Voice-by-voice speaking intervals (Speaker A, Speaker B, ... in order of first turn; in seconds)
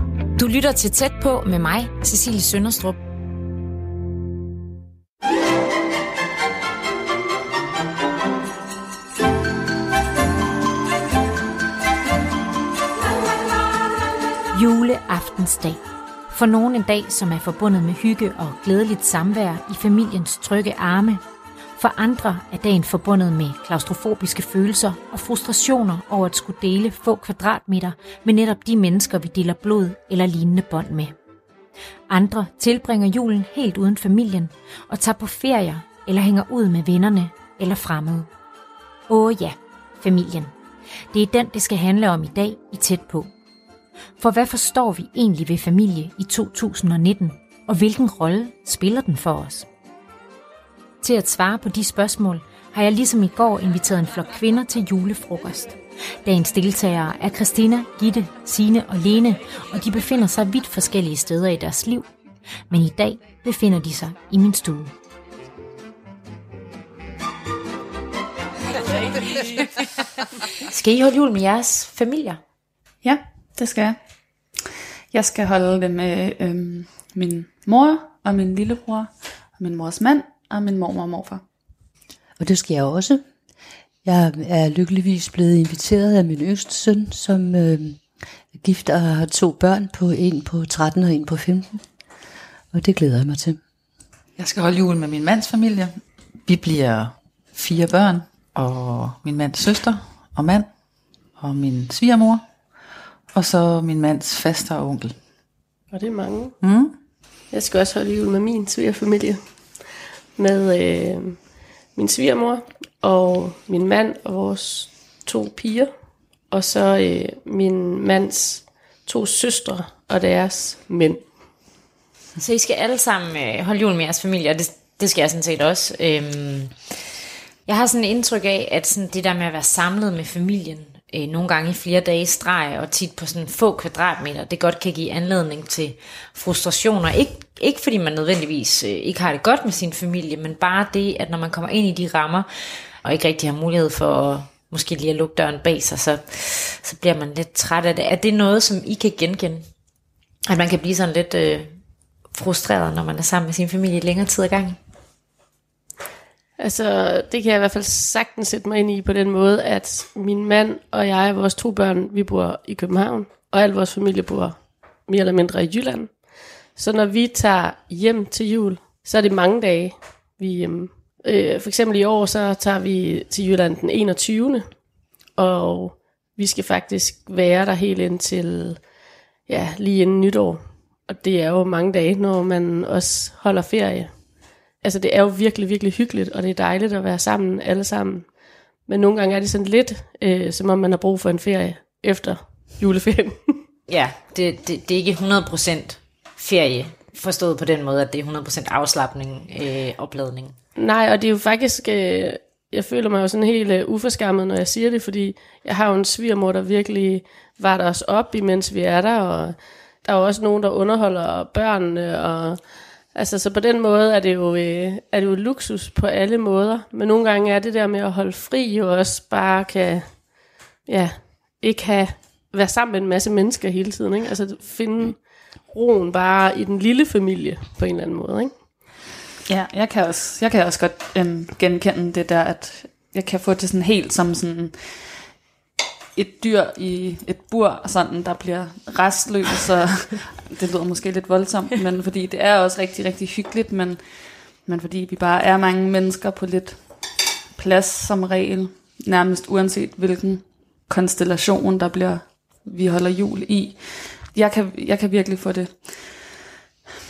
Speaker A: 0.3-3.0, 14.5-15.8, 16.3-21.2, 21.8-31.1, 32.1-38.3, 39.1-40.5, 41.1-43.3, 44.2-49.6, 51.0-62.0, 62.7-64.9, 70.7-72.4, 122.4-126.9, 127.7-149.7, 150.4-151.8, 152.3-154.8, 193.9-200.6
Speaker B: 73.0-74.0, 75.1-81.4, 229.5-235.2, 236.1-256.2
Speaker C: 82.4-83.2, 84.0-91.8, 92.7-93.6
Speaker D: 94.4-100.7, 101.3-102.5, 103.3-105.2, 106.6-107.0
Speaker E: 105.9-106.6, 107.5-121.6, 156.6-193.6, 200.8-228.5